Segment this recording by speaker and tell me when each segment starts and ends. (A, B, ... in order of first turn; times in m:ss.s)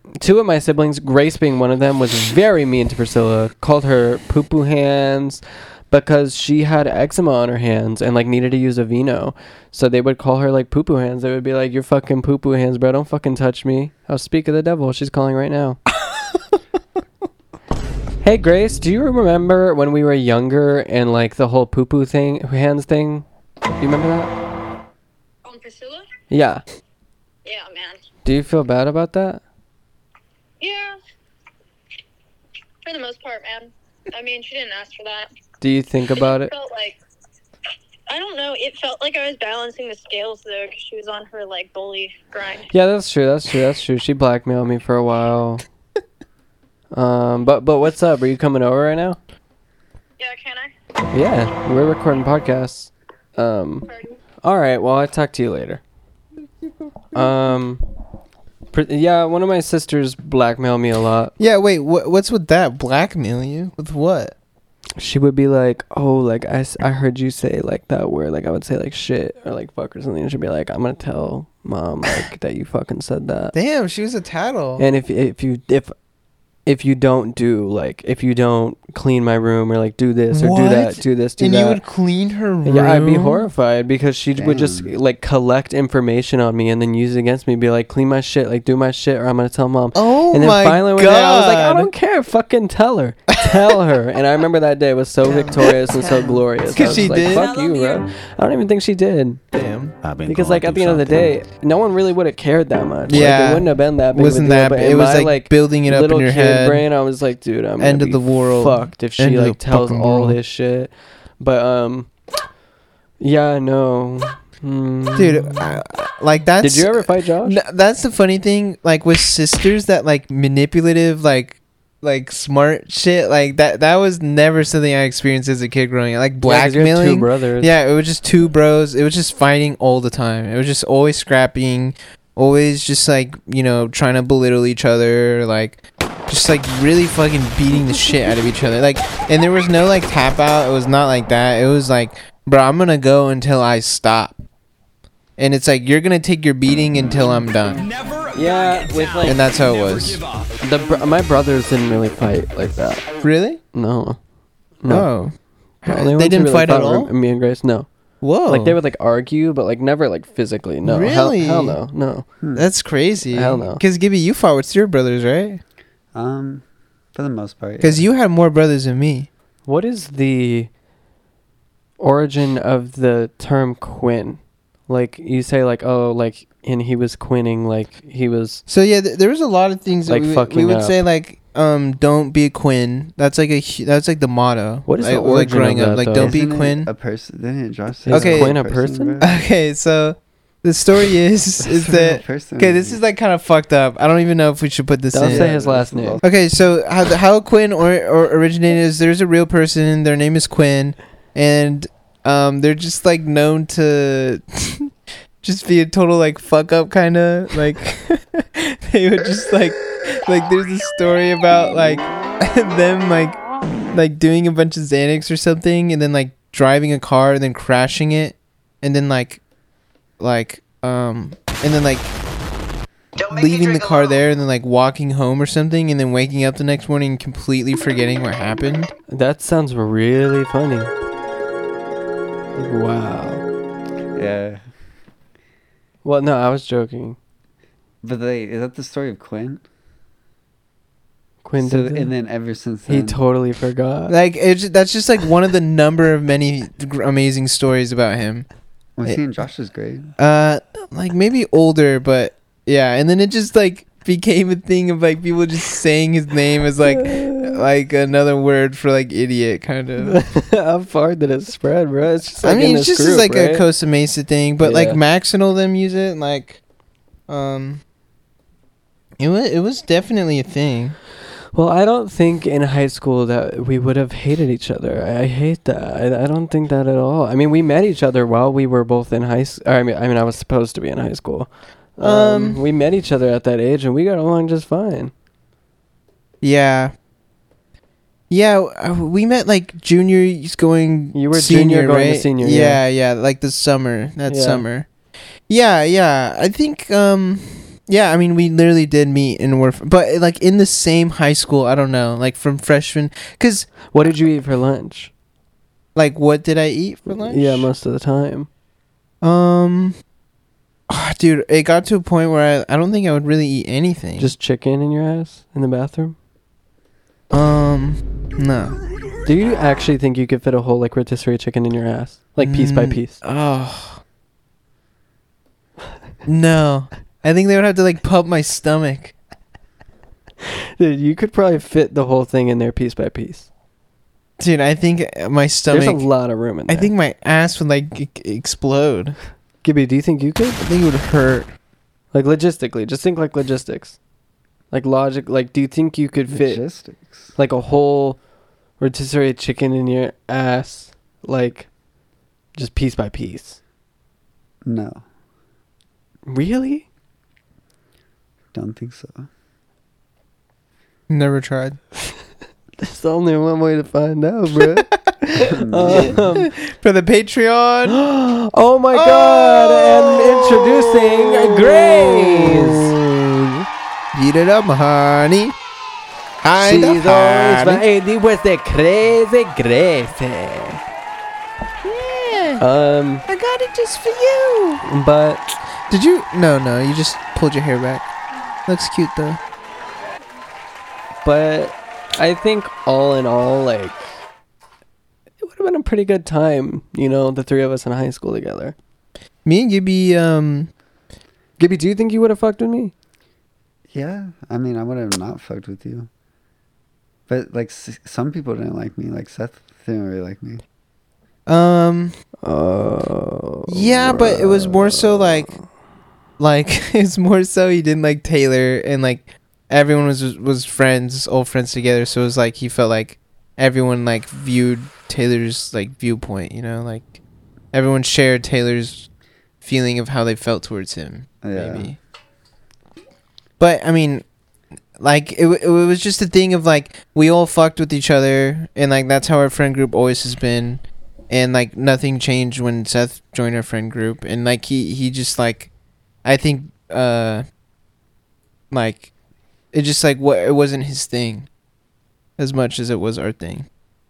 0:00.2-0:15.8 A
0:16.1-0:16.4 B
0:18.2-0:23.3 A
0:23.8-0:24.3 A
0:25.4-0:26.1 C
0:26.3-0:26.6 A
0:27.4-0:28.0 C
0:28.2-0:29.4 A
0:30.6-0:31.0 C
0:32.8-0:35.3 C
0:35.6-0:36.5 A
0:36.2-0:37.0 C
0:38.1-0:42.7 C
0:42.7-0:45.7 A
0:46.9-0:49.2 A
0:50.2-0:50.7 C
0:51.1-0:53.9 A
0:53.9-0:54.2 C
0:54.4-0:55.8 A
0:57.1-0:57.8 A
0:58.7-1:01.3 A
1:01.4-1:04.4 B
1:05.0-1:13.6 A
1:13.5-1:14.9 B
1:14.8-1:15.9 A
1:16.7-1:21.8 A
1:20.3-1:23.5 B
1:22.6-1:39.4 A
1:24.4-1:24.9 D
1:29.9-1:31.9 B
1:35.3-1:38.1 E
1:36.7-1:37.5 B
1:39.5-1:39.9 B
1:40.0-1:41.4 F
1:40.2-1:52.1 A
1:43.1-1:46.9 B
1:47.8-1:50.4 B
1:53.2-1:55.8 A
1:55.2-2:24.4 B
1:56.6-1:57.6 A
2:06.4-2:07.7 A
2:25.4-2:27.8 B
2:27.8-2:30.5 F
2:28.3-2:29.4 A
2:29.2-2:30.2 B
2:30.6-2:33.1 A
2:33.2-2:33.6 B
2:33.7-2:34.2 A
2:34.8-2:35.1 A
2:34.9-2:35.3 B
2:35.8-2:37.9 A
2:35.8-2:37.1 B
2:38.2-2:38.8 B
2:38.5-2:42.2 A
2:40.8-2:41.8 B
2:42.4-2:42.7 D
2:42.6-2:45.6 B
2:43.3-2:43.8 A
2:46.1-2:48.1 D
2:47.8-2:49.3 B
2:49.7-2:50.7 A
2:52.0-2:58.6 A
2:58.7-3:06.9 B
3:00.1-3:01.0 A
3:04.9-3:06.4 A
3:06.2-3:09.4 D
3:08.1-3:09.2 A
3:08.1-3:08.6 B
3:09.2-3:15.6 B
3:11.6-3:13.0 D
3:15.1-3:16.2 A
3:15.2-3:16.3 D
3:16.2-3:24.9 B
3:25.4-3:33.4 B
3:33.9-3:39.4 B
3:40.2-3:42.1 B
3:43.2-3:44.2 E
3:43.3-3:48.9 B
3:49.1-3:50.9 A
3:52.6-3:53.4 A
3:54.2-3:54.6 D
3:56.0-3:57.2 A
3:58.0-3:59.6 D
4:01.4-4:02.1 A
4:01.6-4:03.2 D
4:02.9-4:04.2 A
4:04.1-4:08.5 B
4:09.0-4:10.1 D
4:10.2-4:20.2 B
4:16.8-4:17.6 A
4:20.0-4:23.7 A
4:22.4-4:26.6 B
4:24.6-4:25.0 A
4:27.3-4:27.8 B
4:29.2-4:31.0 B
4:31.5-4:45.1 A
4:42.0-4:42.6 B
4:46.4-4:46.9 B
4:48.3-4:54.9 B
4:51.1-4:52.8 A
4:54.3-4:54.6 A
4:55.5-5:03.9 B
5:03.9-5:05.1 A
5:06.0-5:07.7 B
5:07.1-5:08.5 A
5:09.2-5:10.0 B
5:10.9-5:14.3 B
5:14.2-5:16.2 A
5:17.3-5:18.8 B
5:19.2-5:23.2 A
5:22.4-5:24.0 B
5:26.3-5:29.1 B
5:30.4-5:33.5 A
5:34.4-5:36.1 B
5:35.7-5:36.9 A
5:36.7-5:39.2 B
5:39.6-5:40.6 A
5:40.6-5:41.5 B
5:42.1-5:44.0 A
5:44.7-5:46.6 A
5:46.3-5:47.4 D
5:47.4-5:48.2 A
5:48.8-5:51.7 A
5:52.6-5:53.6 A
5:54.6-5:55.0 D
5:56.3-5:56.9 A
5:58.5-5:59.3 D
6:01.1-6:01.8 B
6:02.8-6:06.5 A
6:04.6-6:05.0 B
6:05.4-6:06.2 D
6:05.9-6:08.0 B
6:07.9-6:12.9 A
6:08.9-6:13.6 B
6:14.1-6:15.6 B
6:16.4-6:17.8 B
6:16.6-6:20.8 A
6:21.8-6:22.6 B
6:22.6-6:23.3 A
6:23.3-6:24.8 B
6:24.8-6:25.5 A
6:25.9-6:28.1 B
6:28.7-6:29.4 B
6:31.2-6:34.0 A
6:35.4-6:38.8 A
6:39.4-6:40.7 B
6:41.6-6:42.9 A
6:43.9-6:46.1 D
6:47.3-6:50.6 D
6:51.5-6:52.1 B
6:52.4-6:55.5 A
6:53.7-6:55.6 B
6:56.4-7:07.2 B
7:07.7-7:09.1 B
7:09.6-7:12.0 B
7:11.4-7:11.9 D
7:13.6-7:14.2 B
7:15.0-7:25.7 B
7:26.2-7:27.4 B
7:28.7-7:29.1 B
7:29.7-7:31.5 B
7:32.4-7:33.7 B